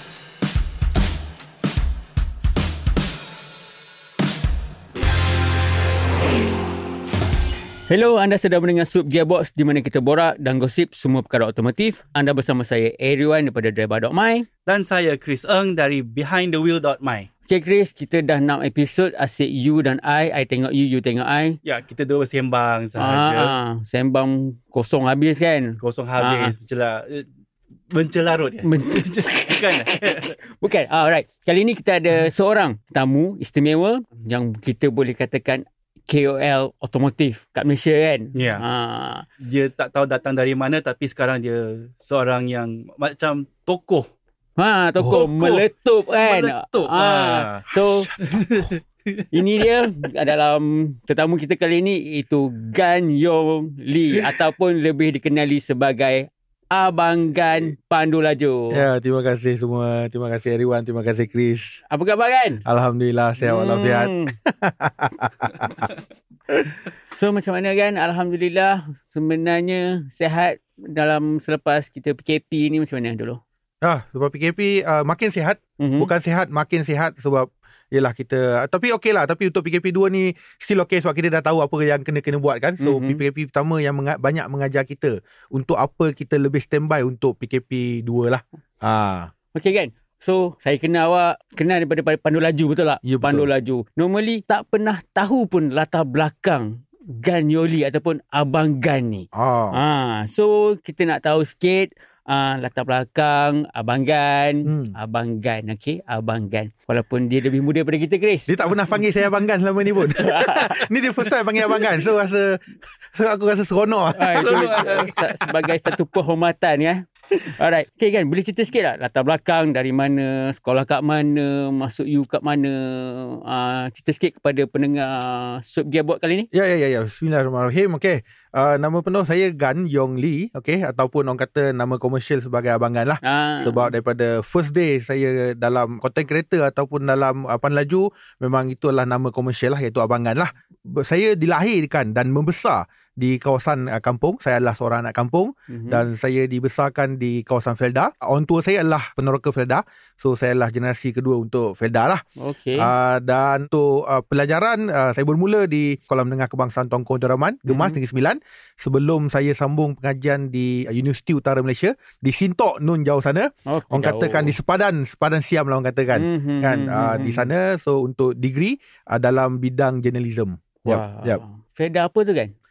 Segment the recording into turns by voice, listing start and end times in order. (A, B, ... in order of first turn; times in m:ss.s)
0:07.9-0:14.5 A
0:14.6-0:17.3 B
0:17.5-0:21.6 A
0:21.6-0:23.5 B
0:23.0-0:26.5 A
0:25.8-0:27.2 B
0:27.9-0:30.3 B
0:28.6-0:39.2 A
0:38.3-0:38.6 B
0:39.4-0:44.1 B
0:44.6-0:48.1 A
0:45.0-0:45.7 B
0:46.2-0:47.7 B
0:47.7-0:48.7 C
0:48.2-0:49.2 B
0:49.3-0:58.8 A
0:58.7-1:01.8 C
1:01.9-1:02.6 A
1:02.6-1:05.9 C
1:03.4-1:04.3 A
1:07.1-1:13.4 A
1:13.8-1:29.3 C
1:15.8-1:16.1 A
1:22.8-1:23.2 A
1:29.5-1:48.5 A
1:33.0-1:33.5 C
1:39.3-1:39.8 C
1:44.6-1:44.9 C
1:48.5-1:55.0 C
1:50.1-1:50.8 A
1:54.2-2:06.5 A
1:54.3-1:55.5 B
2:06.5-2:32.2 C
2:13.2-2:13.9 A
2:25.7-2:26.0 A
2:32.4-2:32.9 A
2:32.8-2:51.4 C
2:37.7-2:38.0 A
2:43.7-2:44.6 A
2:46.1-2:47.5 A
2:50.8-2:52.5 A